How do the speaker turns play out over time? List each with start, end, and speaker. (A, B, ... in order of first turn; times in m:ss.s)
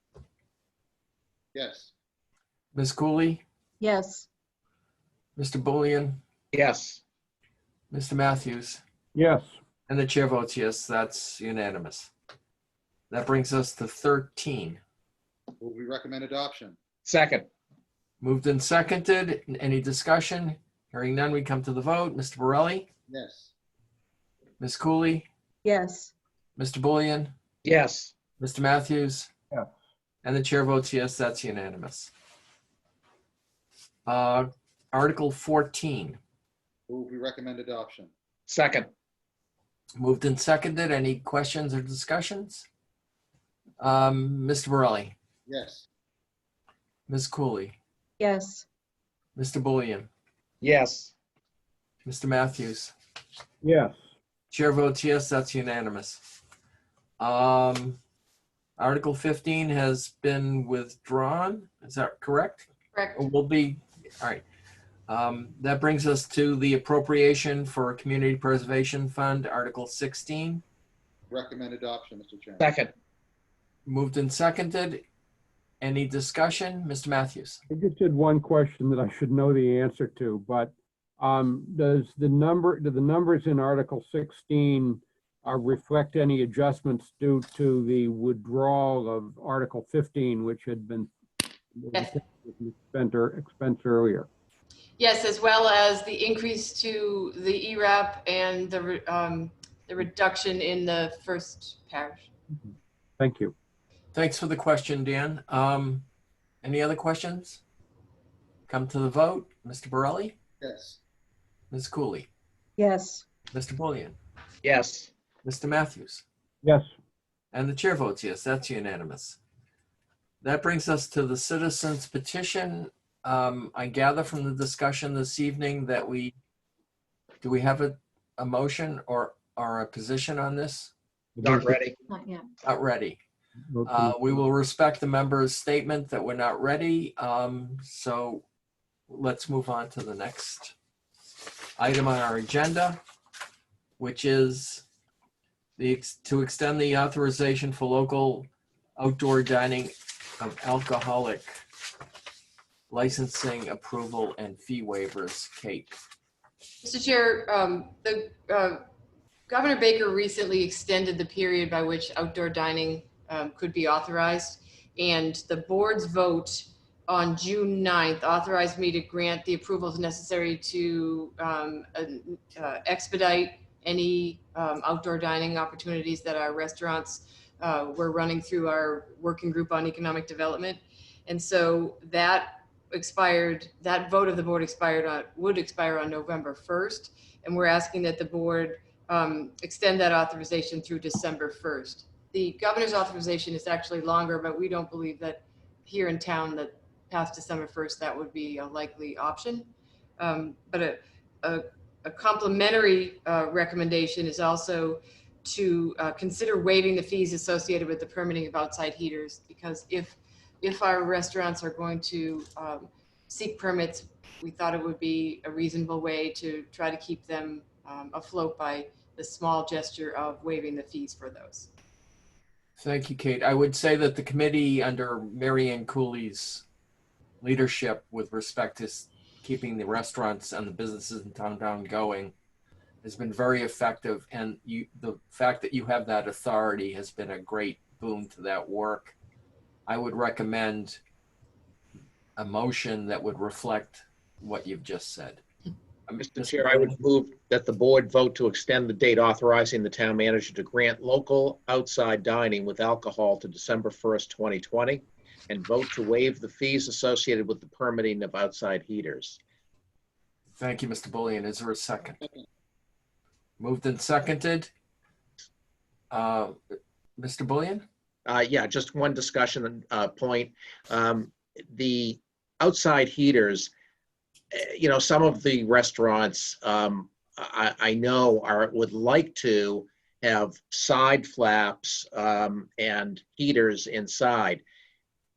0:01.5-0:01.9 A
0:02.7-0:03.4 B
0:03.8-0:04.2 C
0:05.4-0:06.2 B
0:06.5-0:07.0 D
0:07.9-0:08.8 B
0:09.1-0:09.5 E
0:09.9-0:12.1 B
0:13.1-0:14.8 B
0:15.6-0:16.8 A
0:17.0-0:17.5 D
0:18.2-0:22.9 B
0:23.1-0:23.5 A
0:24.6-0:25.3 B
0:25.6-0:26.1 C
0:26.6-0:27.3 B
0:27.6-0:28.1 D
0:28.4-0:29.3 B
0:30.2-0:32.1 B
0:34.0-0:36.2 B
0:36.9-0:38.1 A
0:38.5-0:38.9 D
0:40.0-0:42.7 B
0:43.8-0:45.2 B
0:45.5-0:45.9 A
0:47.1-0:47.8 B
0:48.2-0:48.6 C
0:49.4-0:50.1 B
0:50.6-0:51.1 D
0:52.0-0:52.9 B
0:53.6-0:54.0 E
0:54.5-0:56.2 B
0:57.2-0:58.0 B
0:58.8-1:04.4 B
1:02.9-1:03.3 F
1:05.1-1:10.6 B
1:11.3-1:12.6 A
1:12.6-1:12.9 D
1:13.8-1:15.0 B
1:15.8-1:17.6 B
1:17.7-1:31.1 E
1:31.7-1:34.3 E
1:31.9-1:32.2 F
1:35.0-1:42.3 F
1:43.2-1:43.5 E
1:44.1-1:46.0 B
1:46.6-1:47.6 B
1:48.7-1:50.4 B
1:50.6-1:51.0 A
1:51.7-1:52.3 B
1:52.8-1:53.2 C
1:53.5-1:54.2 B
1:54.6-1:55.1 D
1:55.4-1:56.2 B
1:57.5-1:59.4 B
2:00.4-2:06.3 B
2:07.4-2:10.9 B
2:11.4-2:11.7 E
2:11.4-2:12.0 D
2:12.1-2:12.4 C
2:12.6-2:13.2 B
2:13.7-2:14.4 E
2:13.8-2:18.4 B
2:19.1-2:20.7 B
2:21.8-2:23.0 B
2:24.0-2:24.8 B
2:25.8-2:31.5 B
2:32.9-2:35.9 B
2:36.8-2:38.8 F
2:39.5-3:41.7 F
3:42.8-3:46.6 B
3:47.4-3:52.3 B
3:53.0-3:59.1 B
3:59.9-4:01.0 B
4:02.4-4:05.4 B
4:06.1-4:07.0 B
4:06.2-4:19.4 D
4:20.6-4:22.2 B
4:23.6-4:24.7 B
4:26.1-4:26.6 B
4:27.2-4:27.8 B
4:28.2-4:33.7 D
4:34.5-4:44.6 D